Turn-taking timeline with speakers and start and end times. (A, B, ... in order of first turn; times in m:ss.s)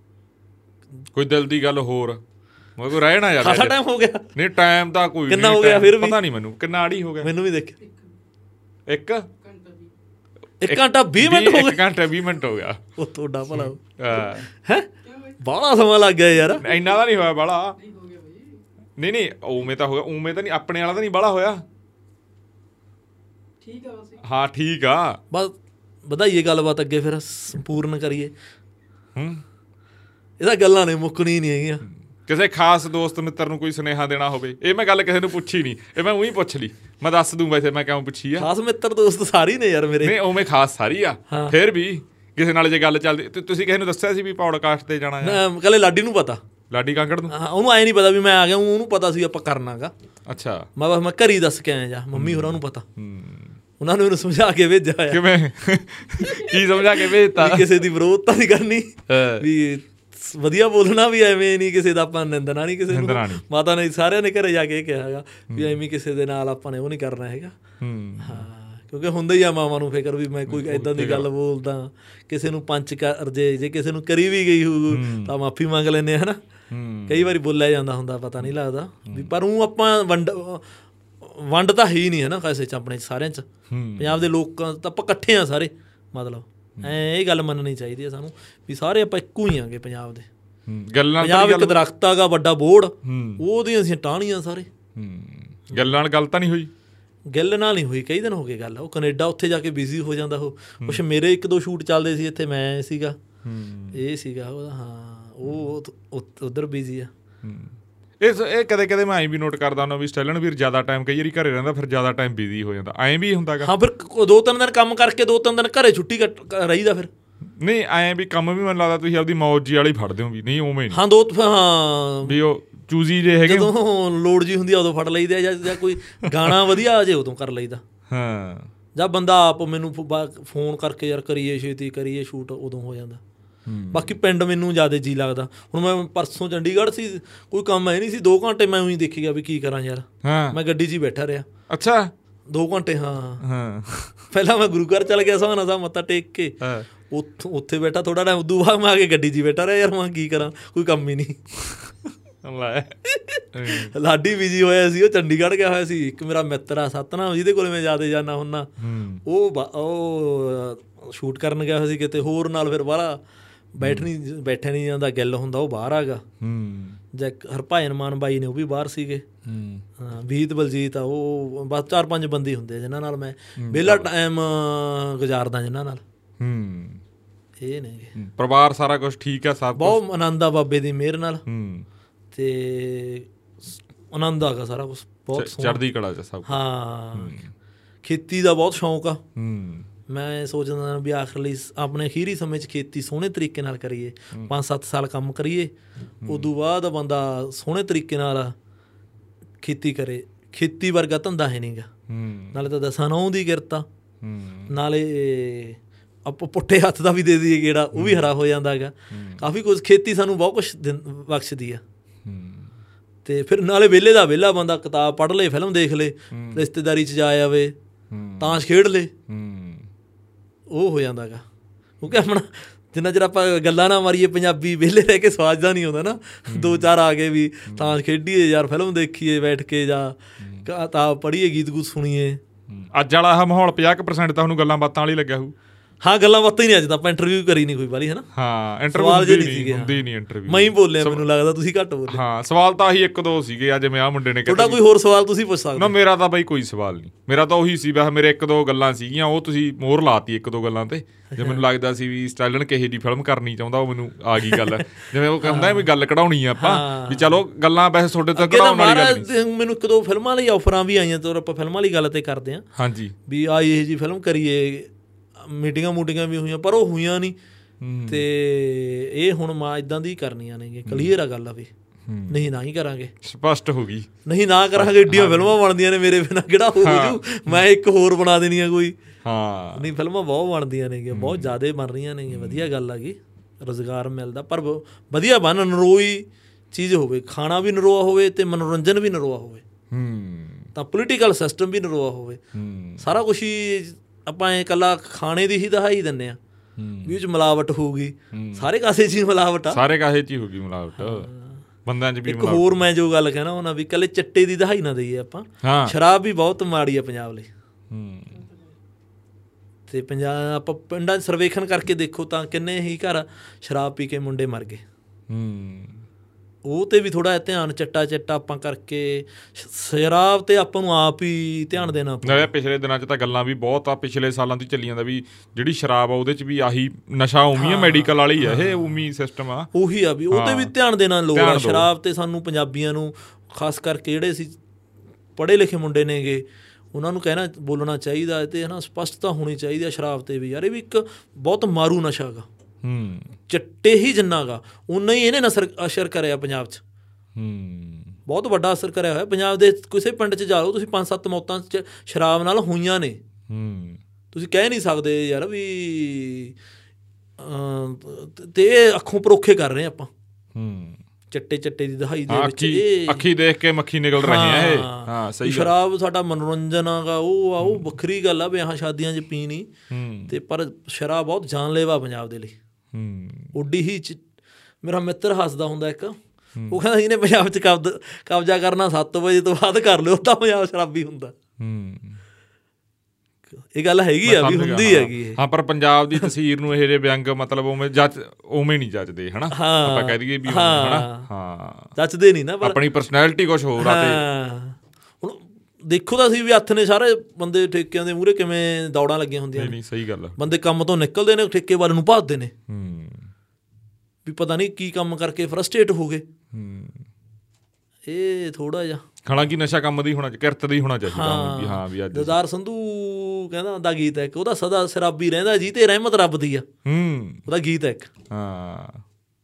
0:01.1-0:02.2 A
0:02.8-0:03.8 A
0:03.4-0:04.3 B
0:04.3-0:07.3 A
0:05.3-0:06.2 B
0:07.2-0:07.8 B
0:08.9-0:09.3 A
0:09.4-0:09.9 C
0:10.6-0:11.8 B
0:10.6-0:12.8 A
0:13.0-0:14.9 B
0:13.5-0:14.5 A
0:15.0-0:15.4 C
0:15.4-0:16.6 B
0:16.6-0:17.8 A
0:17.8-0:18.6 C
0:19.0-0:21.6 A
0:23.6-0:24.2 C
0:24.2-0:25.2 A
0:25.3-0:28.3 B
0:29.2-0:29.4 A
0:30.4-0:31.8 B
0:32.2-0:38.5 A
0:38.4-0:40.2 B
0:40.0-0:45.4 A
0:41.3-0:41.6 B
0:45.2-0:46.4 B
0:46.7-0:47.3 A
0:47.3-0:49.9 B
0:50.3-0:50.7 A
0:50.8-0:52.8 B
0:52.1-0:53.6 A
0:53.8-0:55.2 B
0:55.1-0:57.7 A
0:56.2-1:07.6 B
0:59.1-0:59.4 A
1:02.9-1:03.4 A
1:05.5-1:05.8 A
1:07.8-1:08.4 A
1:08.2-1:16.4 B
1:10.5-1:11.3 A
1:14.9-1:15.3 A
1:16.7-1:17.3 A
1:17.1-1:20.7 B
1:19.0-1:19.3 A
1:21.2-1:23.5 B
1:23.7-1:24.3 A
1:24.0-1:30.3 B
1:30.7-1:31.8 A
1:31.2-1:34.7 B
1:33.0-1:33.4 A
1:34.9-1:36.7 A
1:37.3-1:43.2 B
1:43.4-1:44.0 A
1:43.9-1:47.1 B
1:47.4-1:53.7 A
1:53.6-1:57.1 B
1:57.6-2:01.0 A
2:00.9-2:02.4 B
2:02.2-2:03.7 A
2:03.4-2:07.8 B
2:06.3-2:06.6 A
2:08.1-2:08.7 A
2:08.9-2:13.2 B
2:13.7-2:14.2 A
2:13.9-2:21.5 B
2:20.2-2:20.6 A
2:21.7-2:22.1 A
2:22.5-2:23.4 B
2:23.4-2:24.2 A
2:24.3-2:26.6 B
2:26.6-2:26.9 A
2:27.1-2:31.4 B
2:32.4-2:33.0 A
2:33.0-2:38.7 B
2:33.5-2:33.9 A
2:38.8-2:39.2 A
2:39.2-2:43.2 B
2:43.7-2:46.2 B
2:43.8-2:44.1 A
2:46.4-2:47.0 A
2:47.1-2:49.2 B
2:49.4-2:49.8 A
2:50.0-2:56.0 B
2:53.6-2:54.1 A
2:56.4-2:57.0 A
2:57.6-2:58.1 B
2:58.2-3:00.0 A
2:59.8-3:01.4 B
3:01.4-3:01.8 A
3:02.3-3:05.8 B
3:05.3-3:06.6 A
3:06.4-3:07.4 B
3:07.1-3:07.5 A
3:08.0-3:09.2 B
3:09.4-3:09.9 A
3:10.1-3:15.7 B
3:16.2-3:16.5 A
3:16.2-3:18.5 B
3:19.6-3:21.9 B
3:22.1-3:22.6 A
3:22.5-3:23.8 B
3:24.2-3:24.7 A
3:24.7-3:31.8 B
3:27.9-3:28.3 A
3:29.1-3:29.4 A
3:32.2-3:32.7 A
3:33.2-3:37.7 B
3:36.3-3:36.6 A
3:38.1-3:38.6 A
3:38.4-3:39.1 B
3:39.3-3:39.9 A
3:40.7-3:41.4 B
3:42.0-3:52.4 B
3:46.5-3:46.9 A
3:47.6-3:48.0 A
3:50.4-3:50.7 A
3:52.7-3:55.5 A
3:56.0-3:58.3 B
3:58.3-4:01.2 A
3:58.9-4:02.2 B
4:02.1-4:04.8 A
4:04.4-4:05.9 B
4:05.7-4:19.3 A
4:11.3-4:11.6 B
4:14.4-4:14.8 B
4:15.4-4:15.9 B
4:16.6-4:17.4 B
4:18.3-4:22.6 B
4:22.8-4:23.1 A
4:23.3-4:27.4 B
4:27.8-4:28.2 A
4:28.1-4:31.7 B
4:30.8-4:31.1 A
4:32.1-4:32.5 A
4:32.3-4:33.1 B
4:33.2-4:34.1 A
4:34.2-4:38.9 B
4:34.7-4:35.6 A
4:36.8-4:37.6 A
4:39.2-4:39.9 A
4:39.7-4:49.6 B
4:41.1-4:41.5 A
4:42.3-4:42.7 A
4:49.9-4:50.7 A
4:50.7-4:52.4 B
4:52.5-4:53.1 A
4:53.0-4:56.4 B
4:56.8-4:57.2 A
4:57.0-4:59.8 B
4:58.3-4:58.7 A
4:59.7-5:01.3 A
5:01.0-5:01.5 B
5:01.8-5:02.7 A
5:02.2-5:07.5 B
5:05.6-5:05.9 A
5:07.9-5:08.4 A
5:08.3-5:08.7 C
5:09.9-5:14.8 B
5:15.3-5:16.0 A
5:16.6-5:22.5 B
5:22.2-5:29.7 A
5:27.5-5:29.1 B
5:29.7-5:34.6 B
5:30.3-5:30.7 A
5:31.3-5:31.9 A
5:35.4-5:42.5 B
5:42.8-5:43.4 A
5:43.5-5:46.8 B
5:47.3-5:48.2 A
5:48.2-5:53.2 B
5:53.5-5:54.0 A
5:54.3-5:56.5 B
5:57.4-6:00.1 B
6:00.5-6:01.0 A
6:01.3-6:03.3 B
6:02.3-6:05.7 A
6:04.2-6:09.7 B
6:09.9-6:10.3 A
6:10.3-6:12.5 B
6:12.9-6:13.5 A
6:13.5-6:14.2 B
6:14.8-6:16.2 B
6:16.7-6:21.3 B
6:21.6-6:22.2 A
6:23.6-6:25.4 B
6:24.2-6:31.9 A
6:29.5-6:31.3 B
6:32.0-6:32.8 B
6:32.6-6:34.2 A
6:33.8-6:39.8 B
6:39.5-6:40.4 A
6:40.4-6:42.5 B
6:42.7-6:43.3 A
6:44.2-6:46.2 B
6:46.5-6:47.0 A
6:48.0-6:49.0 B
6:49.2-6:52.3 A
6:51.1-6:56.6 B
6:56.8-6:57.4 A
6:57.5-6:58.1 B
6:58.3-6:59.0 A